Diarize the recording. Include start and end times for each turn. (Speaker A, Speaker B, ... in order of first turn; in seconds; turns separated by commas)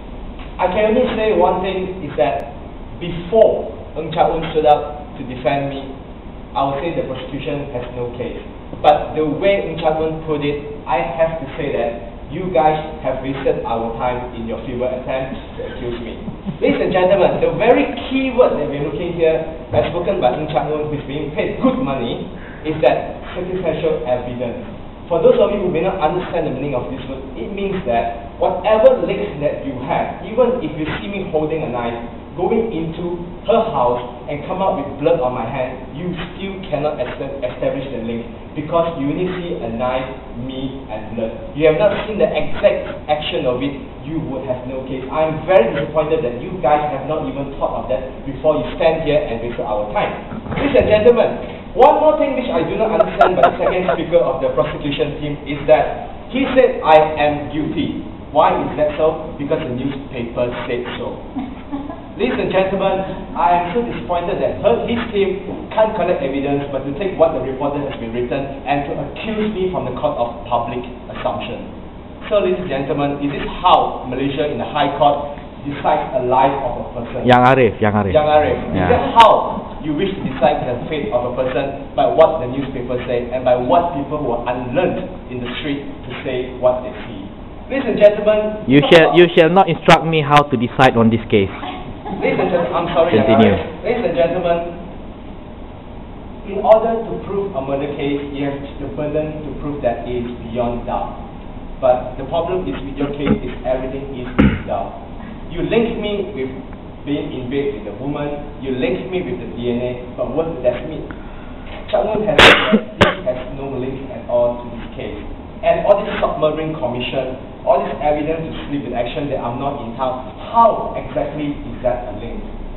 Speaker A: 0.6-5.9, Speaker A: 6.5-61.2, Speaker A: 62.1-71.7, Speaker A: 72.2-77.3, Speaker B: 77.2-78.2, Speaker A: 78.1-89.2, Speaker B: 78.7-79.0, Speaker B: 88.7-91.6, Speaker A: 92.1-94.8, Speaker B: 93.1-93.6, Speaker A: 96.4-101.2, Speaker A: 101.8-104.9, Speaker A: 105.5-111.1, Speaker A: 111.8-122.5